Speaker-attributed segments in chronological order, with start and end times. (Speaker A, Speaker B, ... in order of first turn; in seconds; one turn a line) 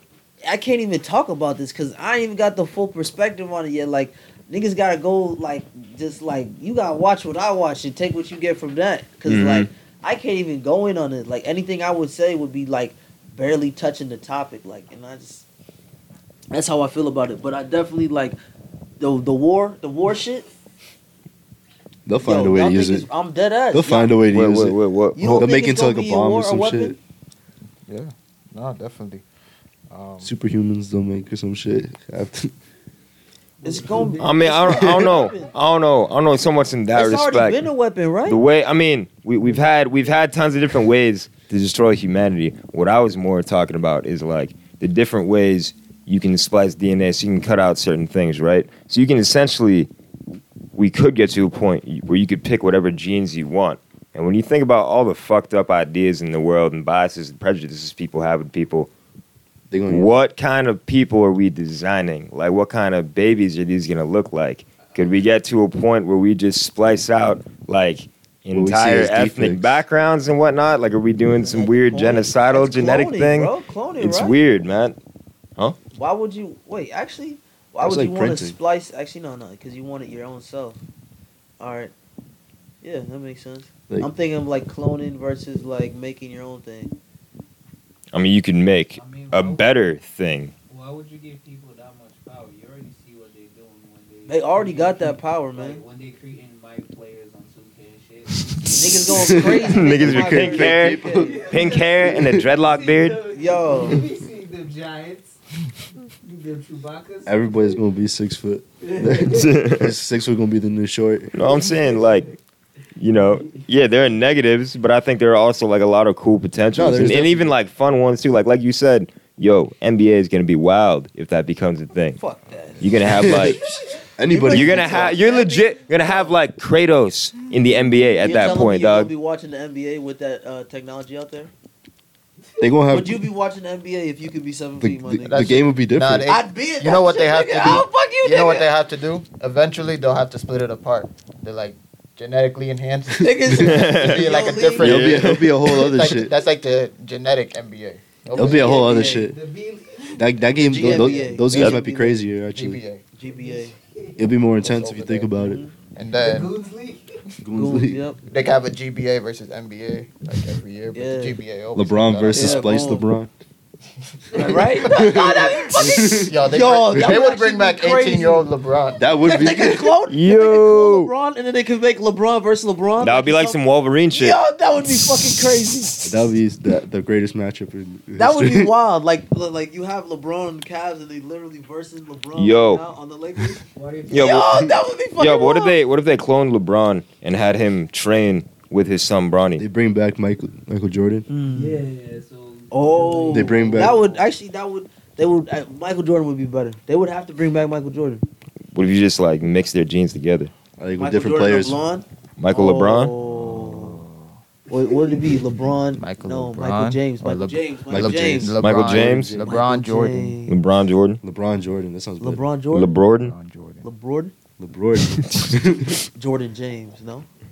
Speaker A: 0.4-15.4
Speaker B: 9.3-9.7
Speaker A: 16.5-18.4
Speaker A: 19.0-20.5
Speaker C: 22.1-23.1
Speaker A: 22.2-24.2
Speaker C: 23.7-27.0
Speaker B: 24.3-25.5
Speaker A: 25.2-27.0
Speaker D: 27.9-29.2
Speaker D: 29.9-30.3
Speaker C: 30.2-32.5
Speaker E: 33.6-34.6
Speaker A: 33.6-35.5
Speaker B: 34.2-37.7
Speaker C: 34.7-35.1
Speaker A: 36.9-38.4
Speaker B: 38.3-49.9
Speaker B: 50.8-58.9
Speaker C: 59.7-60.1
Speaker B: 59.9-75.0
Speaker C: 68.5-69.8
Speaker A: 71.4-74.4
Speaker A: 75.9-80.8
Speaker C: 77.8-78.6
Speaker A: 81.6-81.9
Speaker A: 82.8-87.0
Speaker B: 88.1-90.5
Speaker E: 89.0-89.7
Speaker E: 90.7-100.0
Speaker A: 94.3-95.8
Speaker A: 98.8-101.4
Speaker C: 99.2-101.5
Speaker B: 99.6-103.2
Speaker E: 101.1-105.4
Speaker C: 102.1-102.4
Speaker A: 103.3-104.1
Speaker E: 106.1-107.8
Speaker C: 107.3-111.3
Speaker E: 108.8-109.5
Speaker B: 109.3-109.9
Speaker B: 111.3-112.3
Speaker E: 111.6-112.3
Speaker B: 113.0-122.2
Speaker C: 116.8-117.5
Speaker A: 122.2-126.3
Speaker B: 122.8-123.6
Speaker C: 123.1-123.6
Speaker C: 124.2-125.2
Speaker B: 124.5-129.1
Speaker A: 128.2-131.5
Speaker C: 132.6-133.3
Speaker A: 132.9-135.5
Speaker C: 134.8-136.3
Speaker D: 135.3-148.8
Speaker A: 136.3-138.7
Speaker A: 143.2-144.9
Speaker B: 143.6-145.5
Speaker C: 144.8-146.3
Speaker C: 148.3-149.4
Speaker A: 148.4-149.3
Speaker E: 148.8-151.4
Speaker C: 150.2-152.8
Speaker A: 150.7-152.2
Speaker D: 152.5-153.1
Speaker A: 153.2-153.8
Speaker E: 153.3-154.2
Speaker C: 154.2-155.6
Speaker D: 154.6-155.3
Speaker A: 155.4-155.7
Speaker D: 155.9-156.6
Speaker E: 156.1-157.1
Speaker C: 157.4-158.0
Speaker A: 157.5-158.2
Speaker D: 158.3-162.7
Speaker A: 160.9-161.4
Speaker C: 161.8-163.3
Speaker A: 162.3-163.1
Speaker A: 164.3-168.5
Speaker C: 164.8-166.4
Speaker D: 166.2-169.0
Speaker C: 169.0-170.0
Speaker A: 169.2-173.6
Speaker B: 170.1-171.1
Speaker B: 173.0-174.4
Speaker A: 174.1-176.2
Speaker C: 176.0-178.7
Speaker A: 178.2-185.8
Speaker B: 182.3-182.8
Speaker E: 183.7-184.5
Speaker B: 184.1-189.6
Speaker C: 189.6-191.3
Speaker A: 191.3-191.8
Speaker E: 191.5-194.3
Speaker A: 192.7-198.2
Speaker C: 193.3-194.0
Speaker B: 198.7-200.5
Speaker C: 200.8-201.8
Speaker A: 201.0-204.0
Speaker B: 202.4-203.1
Speaker D: 203.2-204.4
Speaker A: 204.7-208.6
Speaker E: 204.7-205.7
Speaker D: 205.9-210.4
Speaker C: 207.9-209.4
Speaker B: 208.6-209.3
Speaker A: 209.4-210.6
Speaker B: 210.5-211.2
Speaker C: 211.2-212.5
Speaker A: 212.2-212.9
Speaker B: 212.7-213.3
Speaker D: 213.2-213.8
Speaker A: 213.8-214.3
Speaker C: 214.6-216.0
Speaker A: 216.2-217.3